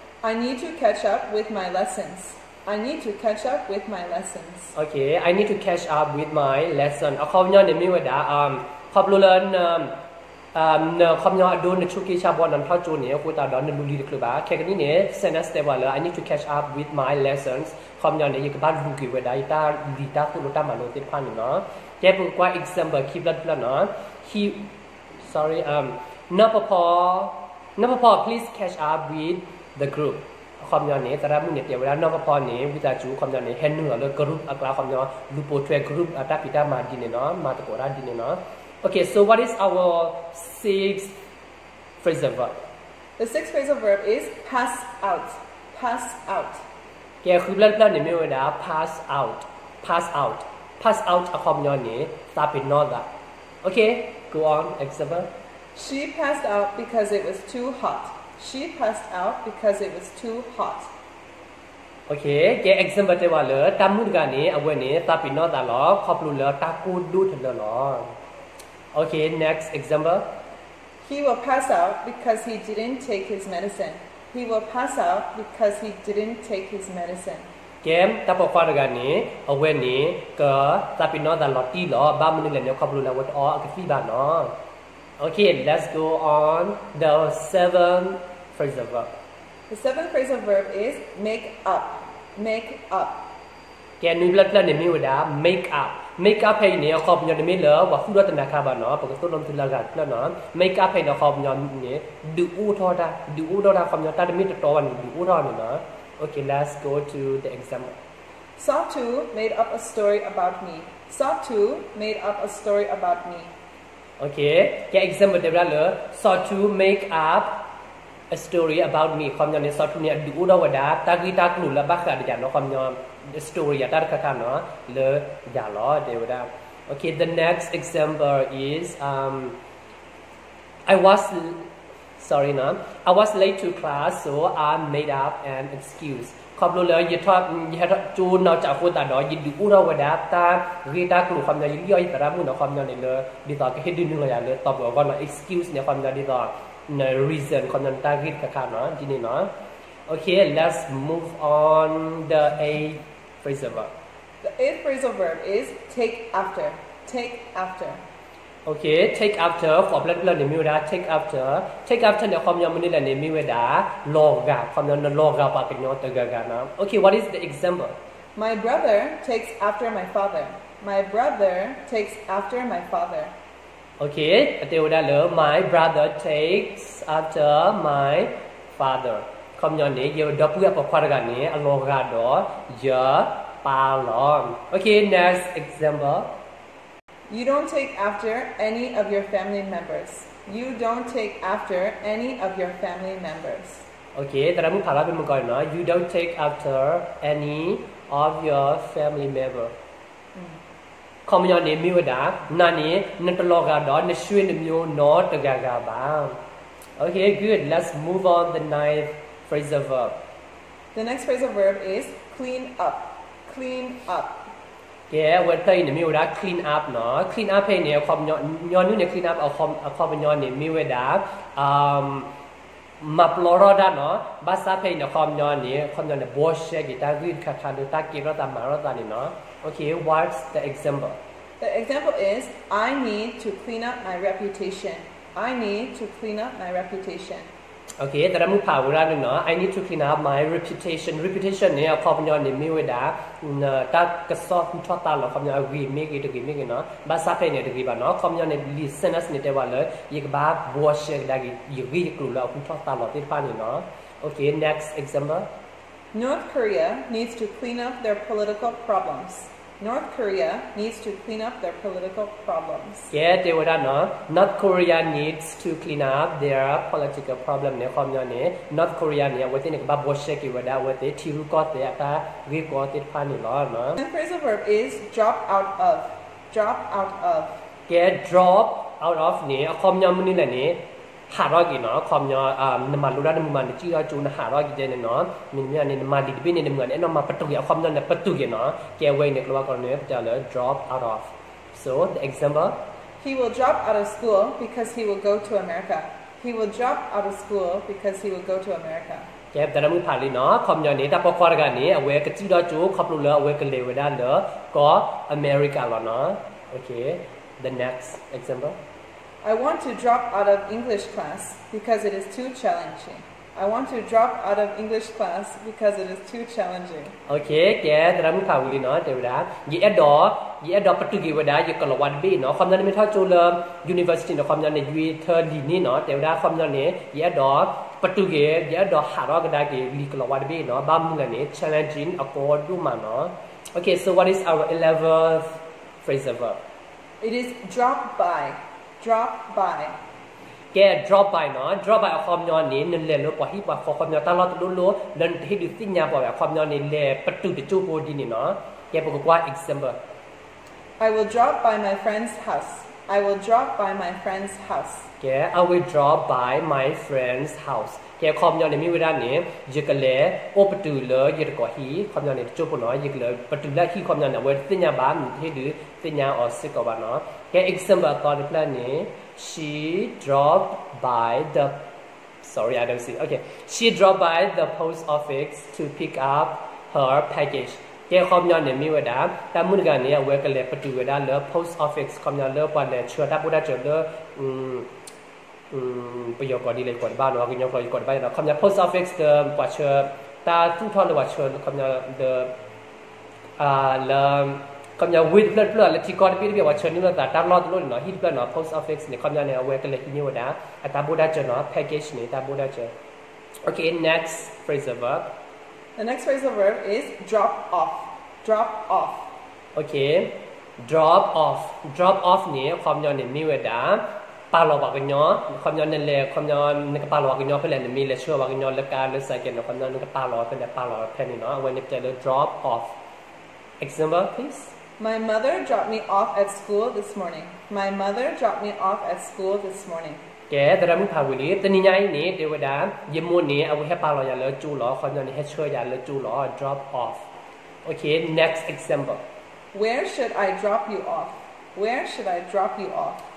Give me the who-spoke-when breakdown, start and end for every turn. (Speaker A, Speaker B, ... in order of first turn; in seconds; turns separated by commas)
Speaker A: 0.2-4.7, Speaker B: 4.8-9.9, Speaker B: 10.5-24.7, Speaker B: 25.2-41.1, Speaker B: 42.0-42.6, Speaker A: 43.2-46.6, Speaker B: 47.2-53.1, Speaker B: 53.6-55.3, Speaker A: 55.7-60.9, Speaker B: 62.1-68.1, Speaker B: 68.9-70.2, Speaker A: 71.0-77.5, Speaker B: 77.8-84.5, Speaker B: 85.2-89.2, Speaker A: 89.7-93.2, Speaker B: 94.0-108.0, Speaker A: 108.6-113.5, Speaker B: 114.2-117.6, Speaker B: 118.3-129.6, Speaker B: 130.9-131.7, Speaker B: 132.2-149.5, Speaker B: 150.1-153.9, Speaker A: 154.4-158.0, Speaker B: 158.7-167.9, Speaker A: 168.3-173.3, Speaker B: 174.0-186.3, Speaker A: 187.3-193.8, Speaker B: 194.1-199.7, Speaker B: 201.2-206.4, Speaker B: 207.0-210.2, Speaker A: 210.9-214.4, Speaker B: 215.1-222.3, Speaker B: 223.0-231.2, Speaker A: 231.6-237.5, Speaker B: 238.0-255.5, Speaker A: 256.1-263.1, Speaker B: 263.1-274.0, Speaker A: 274.0-277.6, Speaker B: 277.9-292.8, Speaker A: 293.2-299.3, Speaker B: 299.5-308.8, Speaker A: 309.4-317.1, Speaker B: 317.3-336.6, Speaker A: 337.2-339.9, Speaker B: 340.7-350.0, Speaker A: 351.0-355.1, Speaker B: 355.2-371.8, Speaker B: 372.4-384.9, Speaker B: 385.7-392.5, Speaker B: 393.6-402.9, Speaker B: 403.6-405.2, Speaker A: 406.0-409.3, Speaker B: 409.8-422.9, Speaker B: 423.8-424.7, Speaker A: 425.0-430.2, Speaker B: 430.5-437.2, Speaker B: 437.8-439.2, Speaker A: 439.7-443.2